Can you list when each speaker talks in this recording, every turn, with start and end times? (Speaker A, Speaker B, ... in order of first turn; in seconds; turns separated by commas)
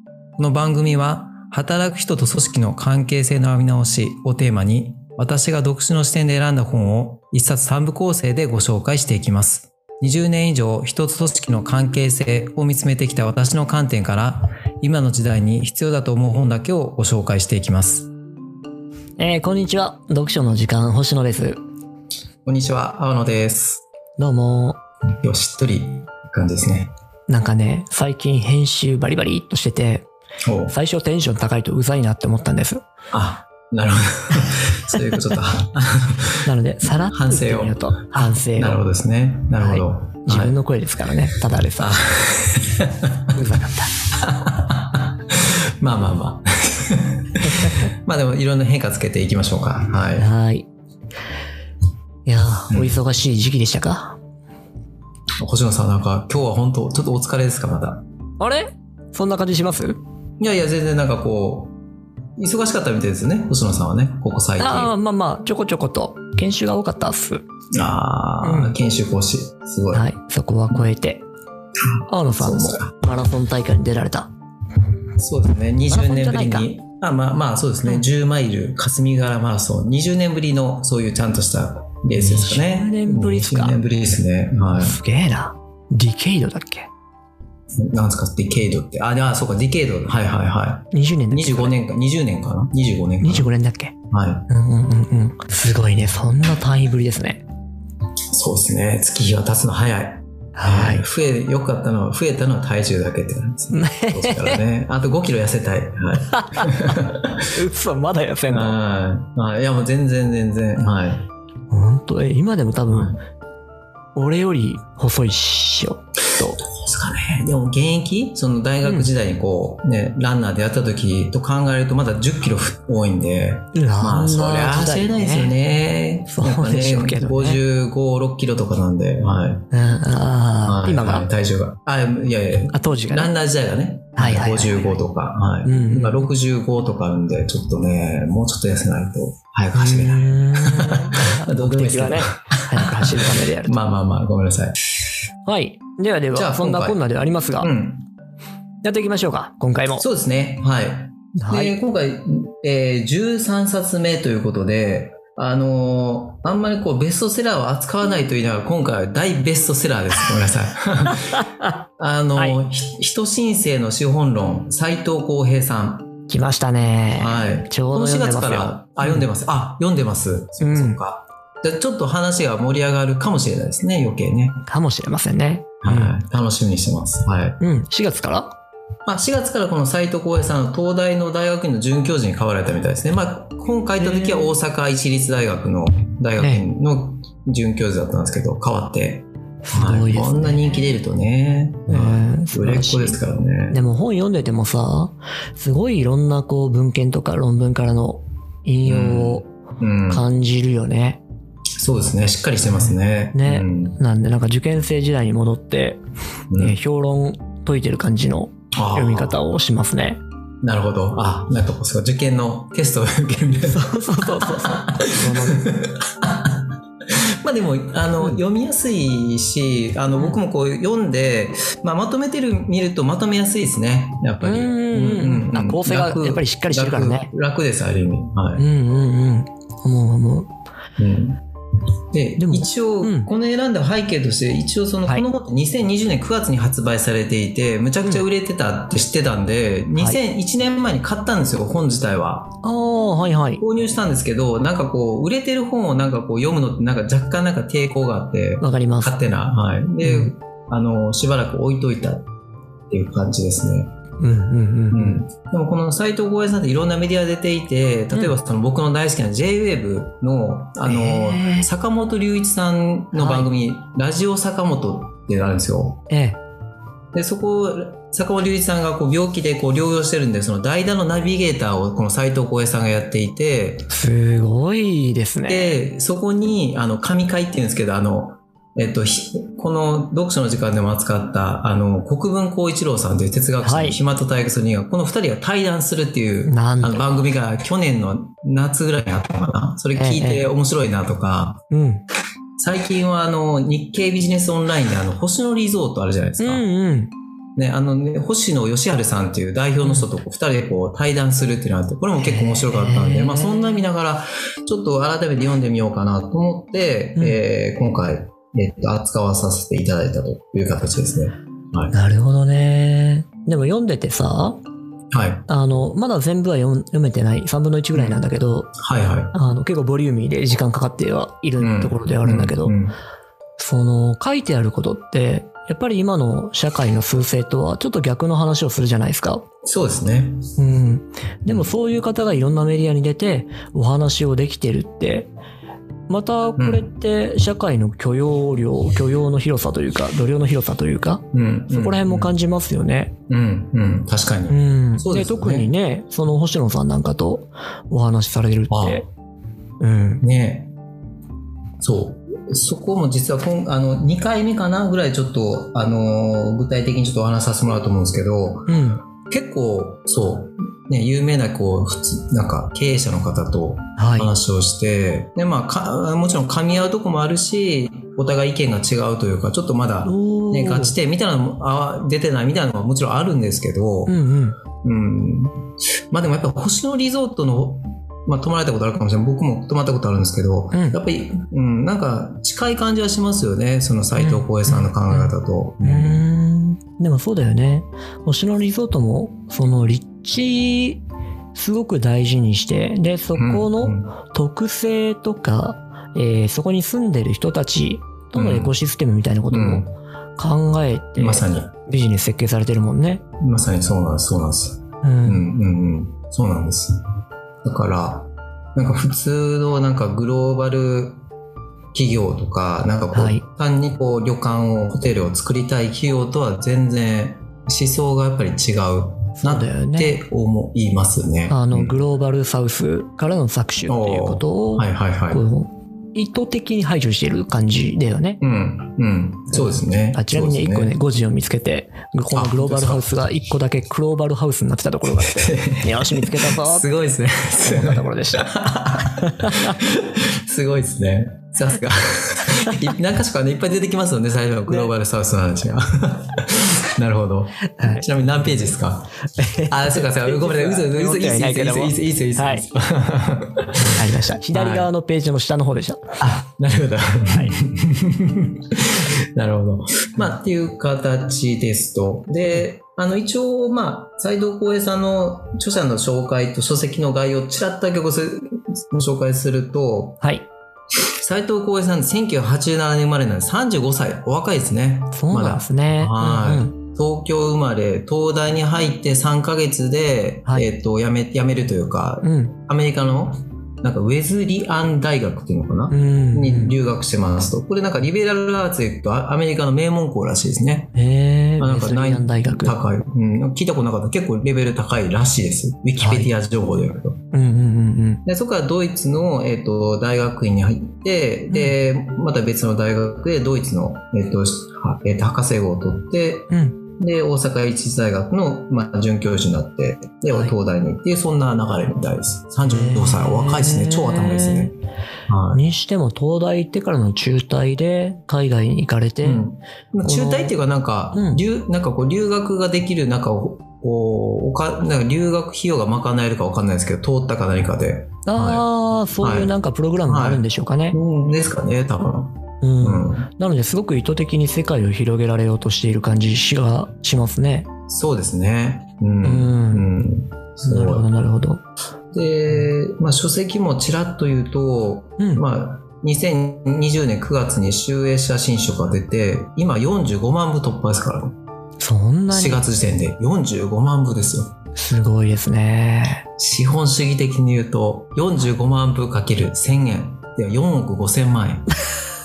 Speaker A: 0.4-18.1, Speaker B: 19.2-21.6, Speaker A: 22.5-23.8, Speaker B: 24.2-24.8, Speaker A: 25.2-26.9, Speaker B: 27.3-30.1, Speaker A: 30.4-30.7, Speaker B: 30.7-32.9, Speaker A: 33.1-36.5, Speaker B: 36.5-38.8, Speaker A: 37.0-40.6, Speaker B: 39.6-42.0, Speaker A: 41.8-43.4, Speaker B: 43.3-43.9, Speaker A: 44.1-50.3, Speaker B: 47.4-47.9, Speaker B: 50.2-50.7, Speaker B: 52.3-54.2, Speaker A: 52.7-53.0, Speaker A: 55.4-58.0, Speaker B: 58.4-60.0, Speaker A: 60.4-61.8, Speaker A: 62.4-64.9, Speaker B: 64.6-67.4, Speaker A: 67.7-70.1, Speaker B: 68.4-68.8, Speaker B: 69.9-71.2, Speaker A: 72.0-72.9, Speaker B: 72.1-74.3, Speaker A: 75.2-85.0, Speaker B: 75.9-76.7, Speaker B: 82.2-83.8, Speaker B: 84.7-86.9, Speaker A: 87.8-93.5, Speaker B: 90.9-91.8, Speaker B: 93.2-94.0, Speaker A: 94.1-94.5, Speaker B: 94.5-97.4, Speaker A: 98.3-107.5, Speaker B: 100.6-101.0, Speaker B: 103.7-104.6, Speaker B: 106.3-107.0, Speaker B: 107.5-108.8, Speaker A: 108.5-111.3, Speaker B: 111.7-113.2, Speaker A: 112.9-113.2, Speaker B: 114.2-116.6, Speaker A: 116.4-129.7, Speaker B: 118.8-119.1, Speaker B: 123.7-125.5, Speaker B: 126.3-127.6, Speaker B: 129.7-131.3, Speaker A: 130.7-144.8, Speaker B: 132.7-133.3, Speaker B: 134.2-135.0, Speaker B: 135.7-136.3, Speaker B: 139.7-143.8, Speaker B: 145.5-147.7, Speaker A: 146.3-147.0, Speaker A: 147.6-148.1, Speaker B: 148.8-150.1, Speaker A: 150.0-161.4, Speaker B: 151.4-151.8, Speaker B: 161.3-161.7, Speaker A: 162.0-166.1, Speaker B: 166.3-169.2, Speaker A: 167.2-174.7, Speaker B: 170.6-171.0, Speaker B: 174.7-176.2, Speaker A: 175.8-177.6, Speaker B: 177.6-178.6, Speaker A: 179.1-193.8, Speaker B: 184.0-184.6, Speaker B: 189.6-190.8, Speaker B: 191.9-199.5, Speaker A: 198.8-200.2, Speaker B: 200.1-201.2, Speaker A: 201.8-204.0, Speaker B: 202.8-206.0, Speaker A: 206.5-206.8, Speaker B: 206.6-210.2, Speaker A: 208.8-209.4, Speaker A: 210.6-228.7, Speaker B: 213.7-215.7, Speaker B: 224.4-227.3, Speaker B: 228.6-230.5, Speaker A: 231.0-231.4, Speaker A: 232.1-242.5, Speaker B: 232.4-233.3, Speaker B: 242.6-243.6, Speaker A: 243.6-252.3, Speaker B: 248.6-249.2, Speaker B: 250.0-250.3, Speaker A: 252.9-253.9, Speaker B: 254.2-255.2, Speaker A: 254.9-266.0, Speaker B: 260.9-261.7, Speaker B: 263.1-263.5, Speaker B: 266.1-266.4, Speaker A: 267.1-273.9, Speaker B: 273.9-275.8, Speaker A: 275.5-291.6, Speaker B: 283.6-284.0, Speaker B: 286.5-287.1, Speaker B: 289.9-290.5, Speaker B: 291.7-292.0, Speaker A: 292.6-296.6, Speaker B: 296.4-297.1, Speaker A: 297.6-311.9, Speaker B: 302.2-303.9, Speaker B: 311.9-314.6, Speaker A: 315.1-315.5, Speaker B: 315.5-318.7, Speaker A: 317.9-318.2, Speaker A: 318.8-319.3, Speaker B: 319.3-322.8, Speaker A: 321.6-323.0, Speaker B: 323.6-329.5, Speaker A: 329.6-330.5, Speaker B: 330.6-335.3, Speaker A: 331.5-331.7, Speaker B: 336.1-343.2, Speaker A: 336.6-336.9, Speaker A: 341.3-342.3, Speaker A: 343.3-345.7, Speaker B: 344.5-349.1, Speaker A: 348.7-349.0, Speaker B: 349.8-350.2, Speaker A: 350.2-350.7, Speaker A: 351.8-374.1, Speaker B: 358.7-359.0, Speaker B: 364.0-364.3, Speaker B: 370.1-370.9, Speaker B: 374.1-374.6, Speaker A: 374.8-386.2, Speaker B: 380.7-381.0, Speaker B: 384.2-391.0, Speaker B: 391.5-399.9, Speaker A: 393.4-394.1, Speaker A: 398.3-398.7, Speaker A: 399.5-399.9, Speaker B: 400.4-403.2, Speaker A: 401.2-401.7, Speaker A: 403.4-407.0, Speaker B: 405.0-405.5, Speaker A: 407.6-411.2, Speaker A: 411.9-422.0, Speaker B: 413.1-413.4, Speaker B: 419.4-420.2, Speaker B: 421.5-428.4, Speaker A: 423.9-425.4, Speaker A: 428.4-430.9, Speaker B: 429.5-436.9, Speaker A: 432.3-433.4, Speaker A: 435.2-449.1, Speaker B: 437.6-438.5, Speaker B: 439.1-439.8, Speaker B: 442.5-442.9, Speaker B: 444.7-444.9, Speaker B: 447.7-448.1, Speaker B: 449.4-452.7, Speaker A: 449.7-454.9, Speaker B: 453.9-456.2, Speaker A: 456.2-470.2, Speaker B: 457.3-457.6, Speaker B: 470.2-470.5, Speaker A: 471.0-490.9, Speaker B: 475.1-476.7, Speaker B: 482.2-482.6, Speaker B: 485.9-486.8, Speaker B: 490.9-492.8, Speaker A: 491.6-497.2, Speaker B: 496.0-496.3, Speaker B: 497.3-498.2, Speaker A: 498.2-514.8, Speaker B: 501.5-501.8, Speaker B: 506.5-506.8, Speaker B: 512.6-514.7, Speaker A: 515.3-515.6, Speaker B: 515.5-519.4, Speaker A: 519.2-528.6, Speaker B: 520.0-520.5, Speaker B: 521.1-521.4, Speaker B: 528.3-531.0, Speaker A: 529.2-529.5, Speaker A: 530.1-533.3, Speaker B: 532.6-537.7, Speaker A: 537.9-541.1, Speaker B: 539.2-539.9, Speaker B: 540.6-541.6, Speaker A: 542.1-551.4, Speaker B: 551.8-552.6, Speaker A: 552.3-554.5, Speaker B: 554.8-556.2, Speaker A: 556.4-561.7